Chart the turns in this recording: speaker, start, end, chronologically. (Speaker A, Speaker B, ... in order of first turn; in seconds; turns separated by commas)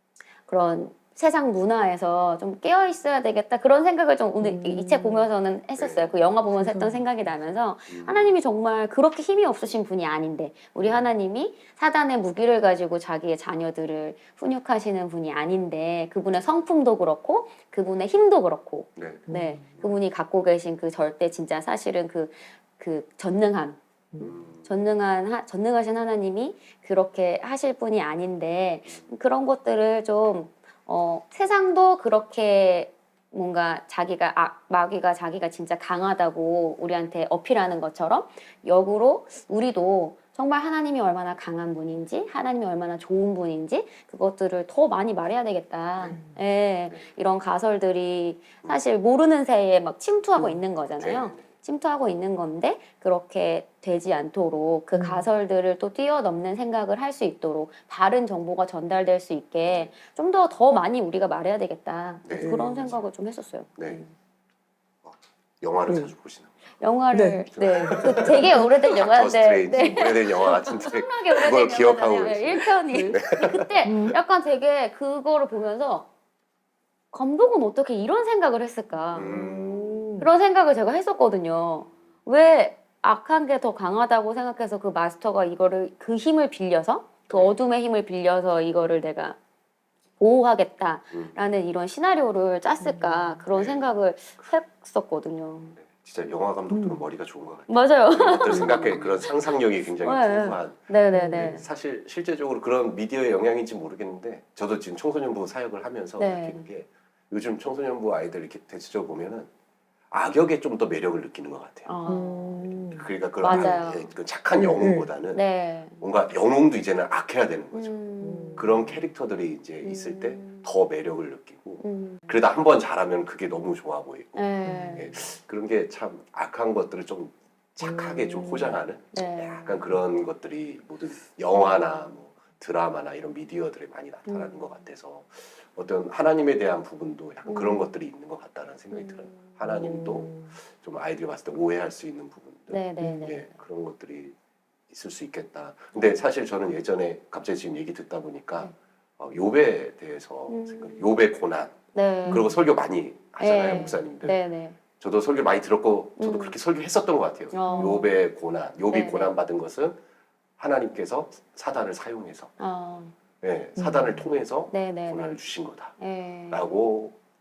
Speaker A: 0.5-64.1, Speaker B: 4.4-5.3, Speaker C: 5.8-6.2, Speaker B: 6.5-7.3, Speaker C: 7.9-8.4, Speaker C: 18.9-20.0, Speaker B: 19.3-19.6, Speaker C: 24.2-24.8, Speaker C: 28.9-29.1, Speaker B: 50.4-50.6, Speaker C: 51.0-51.4, Speaker B: 54.9-55.3, Speaker C: 62.2-63.0, Speaker B: 62.4-62.9, Speaker C: 63.8-64.0, Speaker C: 65.0-66.5, Speaker A: 66.8-76.1, Speaker B: 67.1-68.3, Speaker C: 67.5-73.7, Speaker B: 72.9-73.2, Speaker B: 73.8-74.2, Speaker A: 77.1-79.3, Speaker C: 79.1-80.0, Speaker B: 79.2-80.3, Speaker A: 80.2-89.4, Speaker C: 87.3-87.6, Speaker A: 90.2-95.8, Speaker B: 92.8-93.4, Speaker C: 93.5-93.9, Speaker C: 95.7-109.5, Speaker B: 96.7-97.0, Speaker A: 97.7-99.3, Speaker B: 98.5-99.2, Speaker A: 100.0-101.6, Speaker B: 101.1-101.6, Speaker A: 106.2-106.7, Speaker C: 110.1-112.0, Speaker A: 111.9-112.6, Speaker B: 112.0-113.8, Speaker C: 112.9-115.4, Speaker A: 113.4-114.1, Speaker B: 114.5-115.1, Speaker A: 115.3-116.0, Speaker C: 116.0-117.9, Speaker A: 117.7-118.6, Speaker B: 118.2-119.0, Speaker C: 118.5-144.3, Speaker A: 119.8-120.7, Speaker A: 121.8-122.3, Speaker A: 124.3-125.1, Speaker B: 124.6-125.2, Speaker B: 127.8-128.8, Speaker A: 129.1-129.9, Speaker A: 134.3-134.5, Speaker A: 137.4-137.9, Speaker A: 138.9-139.4, Speaker B: 139.7-140.5, Speaker A: 142.7-143.5, Speaker B: 143.0-143.3, Speaker C: 144.9-151.8, Speaker A: 145.9-146.2, Speaker A: 150.5-151.1, Speaker A: 151.9-152.5, Speaker C: 152.3-154.4, Speaker A: 153.4-154.8, Speaker C: 155.0-160.0, Speaker A: 156.2-156.6, Speaker A: 157.5-158.2, Speaker B: 157.7-158.0, Speaker A: 158.9-159.3, Speaker C: 160.6-162.5, Speaker A: 162.6-163.1, Speaker C: 163.4-165.9, Speaker B: 163.8-164.2, Speaker A: 164.7-165.4, Speaker A: 166.0-166.7, Speaker C: 166.5-167.1